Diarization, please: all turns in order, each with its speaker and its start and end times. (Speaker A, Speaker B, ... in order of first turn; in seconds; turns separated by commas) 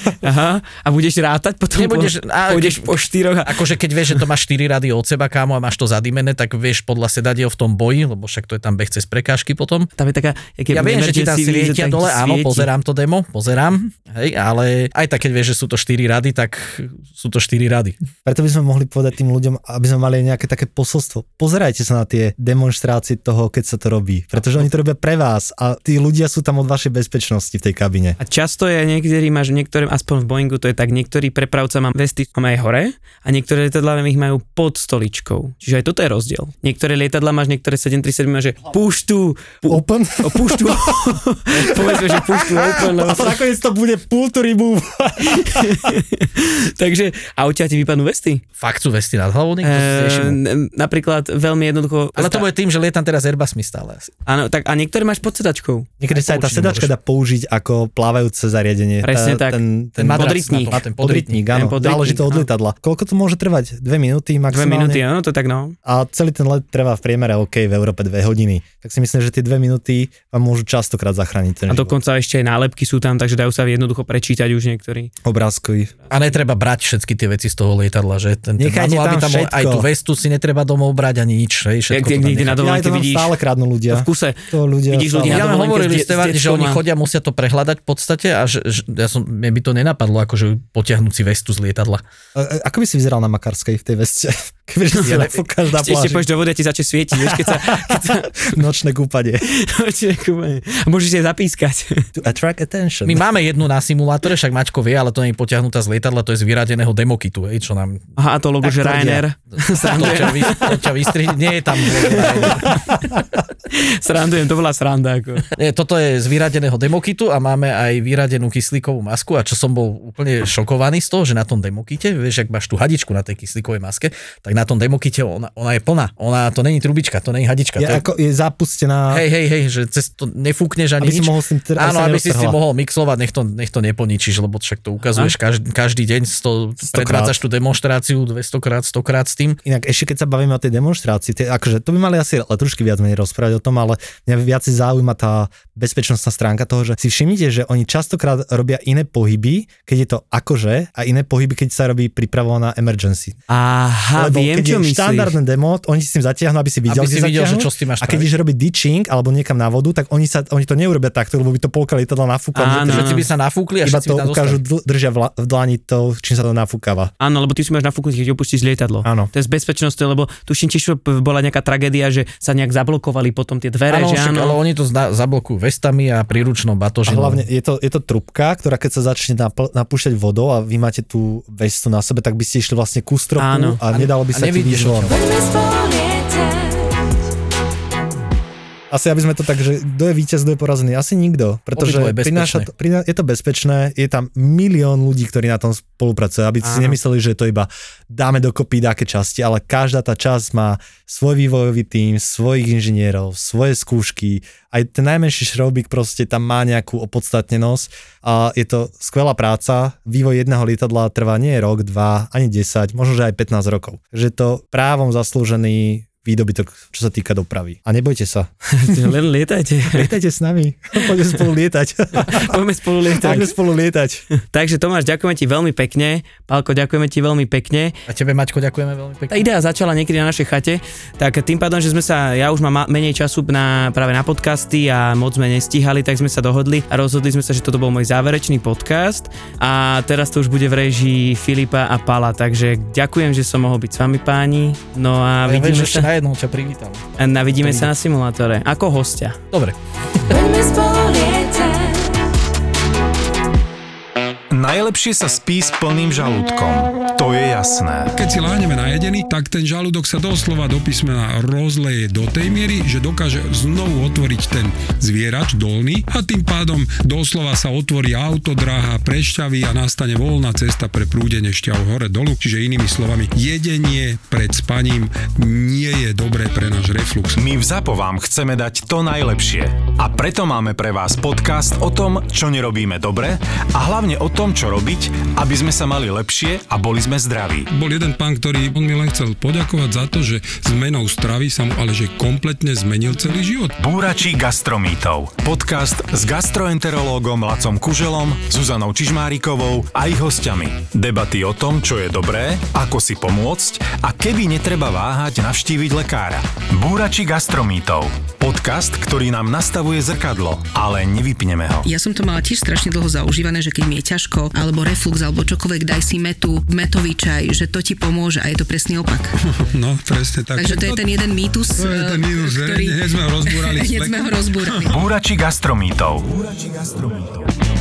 Speaker A: 0.2-3.6, Speaker B: 1.7-9.9, Speaker A: 10.0-12.7, Speaker B: 10.7-18.0, Speaker C: 18.2-28.2, Speaker A: 28.2-43.3, Speaker C: 39.7-41.2, Speaker C: 41.7-45.9, Speaker A: 45.3-48.4, Speaker B: 48.6-50.4, Speaker A: 49.6-52.4, Speaker B: 52.1-54.1, Speaker A: 54.2-55.9, Speaker C: 56.0-65.0, Speaker B: 56.1-56.9, Speaker A: 59.0-59.6, Speaker B: 60.0-61.4, Speaker A: 60.1-60.8, Speaker A: 61.5-62.5, Speaker A: 64.5-65.7, Speaker C: 65.8-71.9, Speaker A: 71.7-75.1, Speaker C: 75.2-75.9, Speaker B: 76.1-82.6, Speaker C: 78.6-79.9, Speaker A: 81.9-83.3, Speaker C: 82.5-85.5, Speaker A: 83.9-86.8, Speaker B: 85.3-92.0, Speaker C: 92.3-96.2, Speaker A: 95.0-98.5, Speaker C: 97.2-99.5, Speaker A: 99.5-102.0, Speaker C: 102.2-103.2, Speaker B: 103.0-108.0, Speaker A: 108.2-110.8, Speaker C: 108.6-109.2, Speaker B: 109.6-112.7, Speaker A: 111.8-112.8, Speaker A: 113.7-115.4, Speaker B: 115.5-128.0, Speaker C: 127.8-129.2, Speaker B: 129.1-139.6, Speaker C: 131.0-132.6, Speaker A: 135.0-135.3, Speaker C: 136.9-137.3, Speaker C: 139.6-153.4, Speaker A: 153.5-155.3, Speaker C: 154.2-163.2, Speaker B: 156.9-158.3, Speaker A: 162.5-163.2, Speaker B: 162.9-164.6, Speaker C: 163.8-167.1, Speaker A: 167.2-174.6, Speaker C: 169.0-169.3, Speaker B: 173.9-177.4, Speaker C: 177.1-185.1, Speaker A: 183.4-183.8, Speaker B: 183.9-185.2, Speaker A: 185.3-186.6, Speaker C: 188.9-219.1, Speaker B: 191.8-192.7, Speaker A: 196.6-197.0, Speaker A: 218.7-220.1, Speaker C: 219.9-222.6, Speaker A: 222.2-223.5, Speaker C: 223.2-224.2, Speaker A: 224.4-227.9, Speaker B: 228.1-229.4, Speaker A: 229.3-246.1, Speaker B: 245.4-247.9, Speaker A: 247.2-249.4, Speaker B: 249.5-250.4, Speaker A: 250.3-251.9, Speaker D: 254.5-258.1, Speaker E: 258.1-277.4, Speaker D: 277.4-287.7, Speaker E: 287.7-293.8, Speaker D: 293.8-311.9, Speaker F: 311.8-319.3, Speaker E: 319.5-321.2, Speaker F: 320.6-325.0, Speaker E: 321.7-324.9, Speaker D: 324.9-327.5